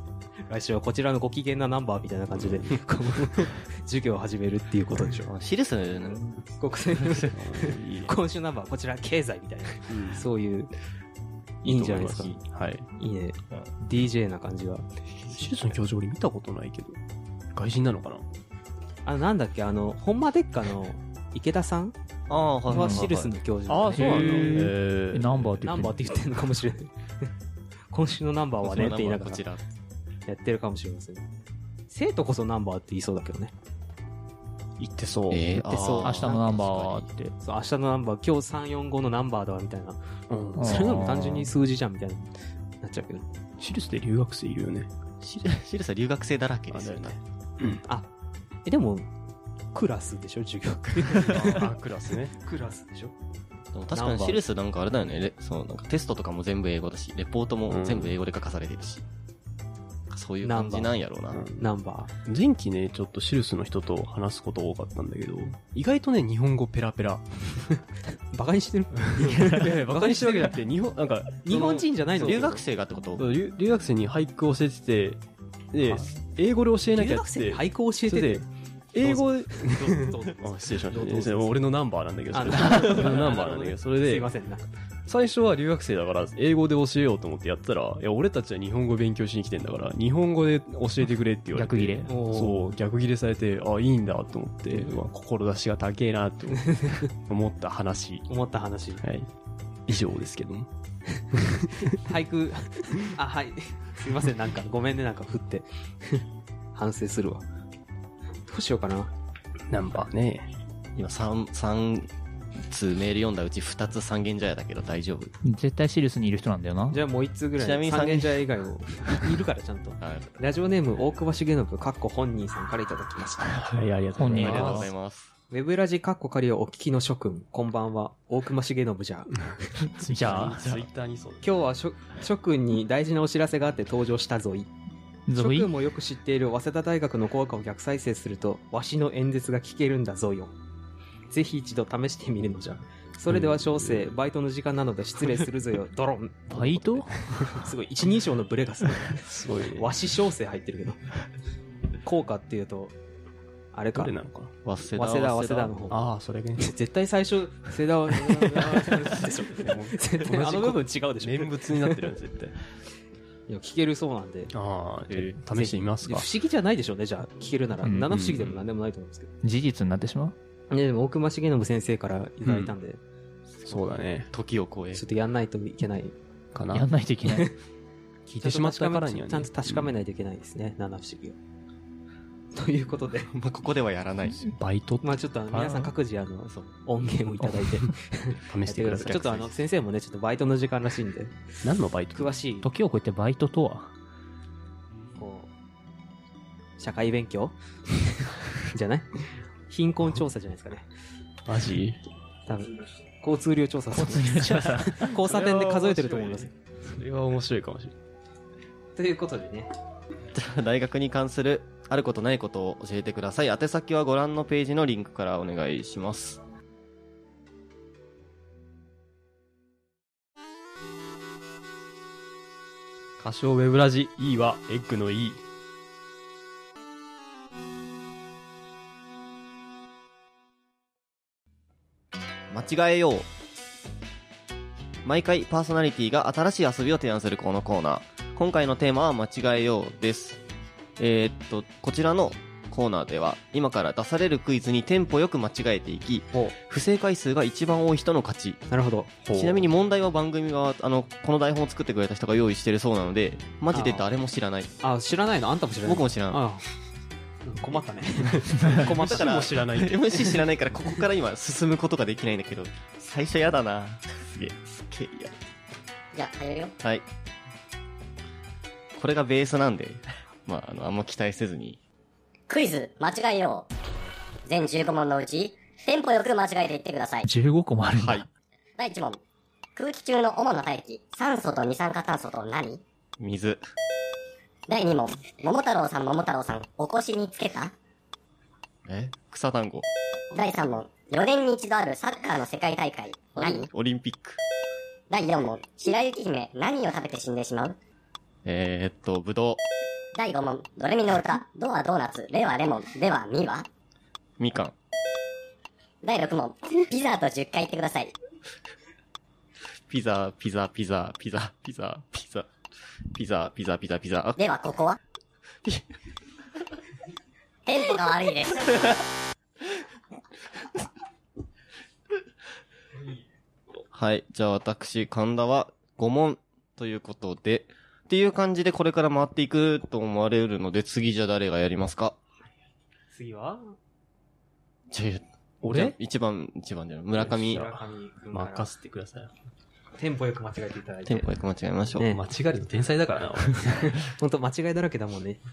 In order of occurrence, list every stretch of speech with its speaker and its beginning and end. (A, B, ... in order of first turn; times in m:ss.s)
0:00.5-0:05.3 A
0:02.3-0:02.8 B
0:05.3-0:06.3 C
0:06.1-0:10.7 A
0:07.3-0:08.2 B
0:09.9-0:10.3 B
0:11.6-0:12.4 A
0:11.6-0:12.9 B
0:13.0-0:14.9 A
0:15.3-0:17.0 B
0:17.5-0:18.3 B
0:19.0-0:22.0 A
0:22.3-0:23.3 C
0:22.7-0:24.7 A
0:22.7-0:23.0 D
0:23.7-0:25.9 B
0:23.9-0:26.2 D
0:25.6-0:27.3 A
0:27.9-0:29.4 A
0:28.6-0:29.6 C
0:30.3-0:31.2 A
0:31.9-0:33.5 A
0:34.8-0:35.6 B
0:35.3-0:37.1 C
0:35.6-0:36.6 A
0:36.0-0:37.4 D
0:37.4-0:40.0 A
0:40.3-0:41.0 B
0:40.6-0:41.5 D
0:40.6-0:43.3 A
0:43.6-0:44.9 B
0:45.2-0:47.2 C
0:46.7-0:47.8 B
0:48.6-0:49.1 A
0:49.7-0:51.7 A
0:51.1-0:52.4 B
0:52.3-0:53.2 A
0:53.7-0:59.0 C
0:53.9-0:54.4 A
0:57.7-0:58.1 B
1:00.1-1:01.4 C
1:00.4-1:01.0 A
1:01.3-1:01.7 B
1:01.6-1:02.1 A
1:02.2-1:07.3 B
1:08.3-1:10.6 A
1:09.1-1:12.3 B
1:11.5-1:12.6 A
1:12.2-1:13.3 C
1:13.2-1:15.2 B
1:15.7-1:24.3 B
1:16.9-1:18.5 A
1:19.0-1:21.6 A
1:22.3-1:24.7 A
1:25.1-1:38.3 B
1:31.5-1:32.1 D
1:32.1-1:32.7 A
1:38.3-1:39.0 A
1:39.0-1:39.3 B
1:39.9-1:40.7 B
1:41.3-1:42.0 B
1:41.9-1:47.4 A
1:48.5-1:49.1 A
1:49.7-1:50.5 B
1:51.0-1:52.1 C
1:52.6-1:55.4 C
1:55.4-1:57.0 D
1:56.9-2:03.6 A
1:57.6-1:58.5 C
2:00.0-2:00.4 C
2:03.6-2:04.9 B
2:04.2-2:04.9 D
2:04.3-2:05.3 C
2:05.5-2:09.9 A
2:09.8-2:11.6 B
2:10.1-2:10.7 D
2:11.4-2:14.7 A
2:15.3-2:15.7 D
2:15.4-2:20.6 A
2:21.3-2:31.0 A
2:23.3-2:24.2 B
2:26.5-2:27.6 D
2:29.1-2:29.9 B
2:32.0-2:33.0 A
2:33.7-2:34.1 A
2:33.9-2:34.5 B
2:34.6-2:35.8 C
2:34.9-2:36.0 A
2:35.9-2:36.7 B
2:36.6-2:42.1 A
2:38.6-2:42.6 B
2:43.5-2:44.5 A
2:44.5-2:46.3 B
2:45.1-2:45.4 C
2:45.5-2:49.3 A
2:47.8-2:48.1 D
2:48.1-2:48.6 B
2:49.4-2:50.4 D
2:50.7-2:53.0 A
2:52.4-2:52.8 B
2:53.6-2:55.0 C
2:53.7-2:54.3 B
2:54.9-2:56.1 A
2:56.6-2:56.9 B
2:56.7-2:57.5 D
2:57.2-2:57.5 A
2:58.3-2:59.9 B
2:58.4-3:01.4 A
3:02.5-3:03.3 A
3:03.3-3:04.6 C
3:04.5-3:05.8 B
3:05.0-3:11.4 A
3:05.5-3:05.9 C
3:08.5-3:09.3 B
3:09.0-3:09.6 C
3:11.6-3:12.3 B
3:12.1-3:12.7 A
3:12.6-3:13.9 D
3:15.2-3:15.5 A
3:16.8-3:20.9 A
3:21.5-3:22.0 B
3:22.5-3:26.5 A
3:23.9-3:25.1 D
3:24.9-3:28.0 B
3:29.0-3:29.7 A
3:30.3-3:36.4 C
3:43.2-3:45.4 B
3:52.5-3:53.3 C
3:55.0-4:00.4 C
4:01.0-4:08.6 C
4:08.7-4:09.1 A
4:09.2-4:09.7 B
4:09.3-4:14.7 C
4:13.7-4:14.1 A
4:14.8-4:16.6 A
4:15.8-4:16.4 C
4:17.5-4:19.5 A
4:18.4-4:20.2 B
4:18.7-4:25.3 C
4:26.1-4:26.7 E
4:29.0-4:31.8 C
4:32.5-4:33.7 E
4:34.5-4:37.3 E
4:37.2-4:38.3 D
4:38.0-4:38.3 C
4:38.8-4:39.2 E
4:39.8-4:42.8 E
4:43.2-4:43.6 C
4:44.7-4:47.7 E
4:48.9-4:49.9 C
4:50.3-4:53.7 E
4:53.5-4:54.4 C
4:55.1-4:57.8 E
4:58.4-4:59.6 C
5:00.2-5:03.7 E
5:04.4-5:04.7 C
5:06.0-5:08.1 E
5:09.9-5:12.5 C
5:13.1-5:14.4 C
5:14.4-5:15.0 E
5:17.7-5:18.9 E
5:23.9-5:32.2 C
5:33.1-5:33.8 A
5:34.9-5:37.7 C
5:35.6-5:36.0 B
5:37.2-5:37.8 B
5:37.5-5:38.7 A
5:38.3-5:39.3 B
5:40.0-5:41.3 A
5:41.1-5:42.1 C
5:42.0-5:42.2 A
5:42.1-5:44.0 B
5:44.0-5:45.4 A